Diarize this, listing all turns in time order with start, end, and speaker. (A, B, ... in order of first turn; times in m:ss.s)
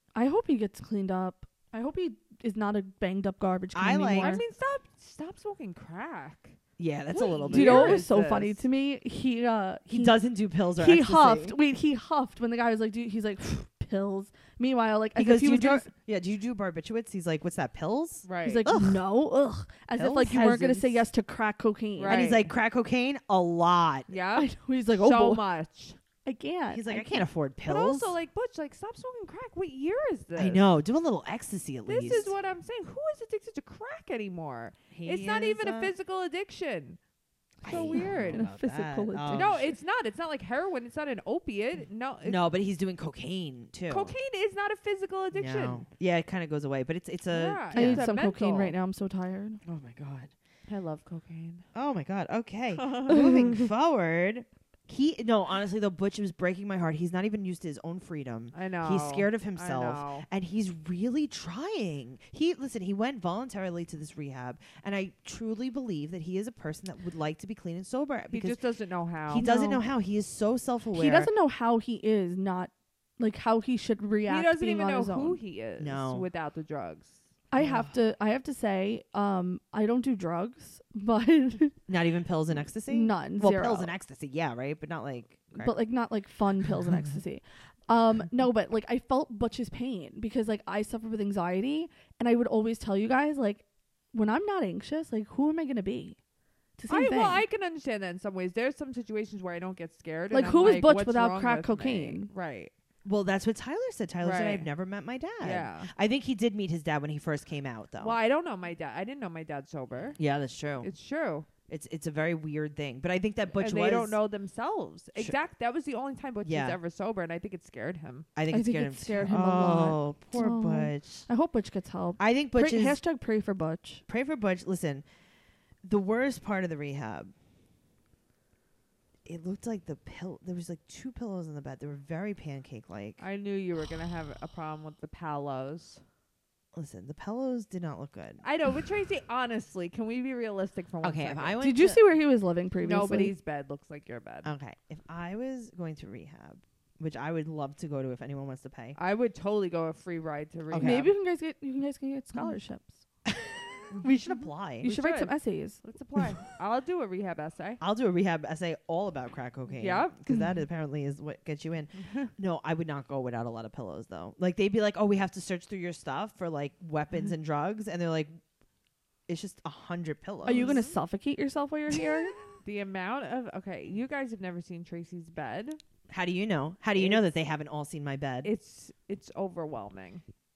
0:00.2-0:04.4 A
0:03.7-0:04.3 B
0:04.1-0:06.6 C
0:06.8-0:08.1 B
0:07.1-0:08.6 C
0:07.5-0:10.2 A
0:09.9-0:11.6 B
0:10.8-0:15.9 A
0:15.2-0:19.0 B
0:18.2-0:18.6 C
0:18.4-0:22.2 A
0:20.0-0:21.1 B
0:22.0-0:22.5 C
0:22.1-0:24.1 B
0:24.1-0:26.0 C
0:24.4-0:25.4 A
0:26.2-0:27.3 A
0:26.7-0:28.2 B
0:27.6-0:30.7 C
0:30.4-0:32.3 B
0:31.9-0:37.0 C
0:34.9-0:35.9 B
0:37.6-0:38.5 C
0:37.6-0:39.7 B
0:37.7-0:39.6 A
0:39.3-0:42.4 C
0:42.2-0:44.2 B
0:43.9-0:45.8 C
0:45.3-0:48.1 B
0:47.3-0:48.8 C
0:47.7-0:49.6 A
0:49.6-0:50.3 B
0:50.7-0:51.7 C
0:51.7-1:08.6 B
0:52.8-0:53.2 C
0:58.5-1:00.3 C
1:08.3-1:09.5 C
1:09.3-1:11.3 B
1:09.3-1:09.9 A
1:11.0-1:15.4 A
1:14.3-1:17.2 C
1:15.8-1:16.3 B
1:17.5-1:21.8 A
1:17.6-1:17.9 B
1:21.9-1:25.8 B
1:22.9-1:23.9 A
1:25.6-1:36.2 A
1:36.8-1:37.4 A
1:36.9-1:42.7 C
1:40.3-1:42.3 A
1:43.1-1:48.2 B
1:44.2-1:44.7 C
1:45.4-1:45.9 C
1:48.0-1:50.2 C
1:50.2-1:50.9 B
1:50.8-1:51.5 C
1:51.7-1:54.2 B
1:53.6-1:58.3 C
1:56.4-1:56.8 B
1:58.4-2:01.3 B
1:58.5-2:04.0 A
2:02.2-2:03.0 B
2:04.1-2:05.0 B
2:05.8-2:07.3 B
2:09.2-2:13.2 B
2:13.2-2:16.0 C
2:16.7-2:18.4 B
2:18.4-2:21.6 C
2:21.0-2:22.0 B
2:21.6-2:23.3 A
2:22.8-2:24.5 C
2:24.4-2:29.0 B
2:29.0-2:31.1 C
2:30.7-2:31.1 B
2:30.8-2:33.0 A
2:33.3-2:35.0 B
2:34.8-2:35.8 A
2:34.8-2:37.8 C
2:37.8-2:48.4 B
2:39.7-2:40.2 C
2:49.3-2:50.8 B
2:50.4-2:50.9 C
2:50.4-2:52.4 A
2:52.6-2:55.8 C
2:56.1-2:58.5 B
2:56.9-2:57.2 C
2:58.4-3:00.2 C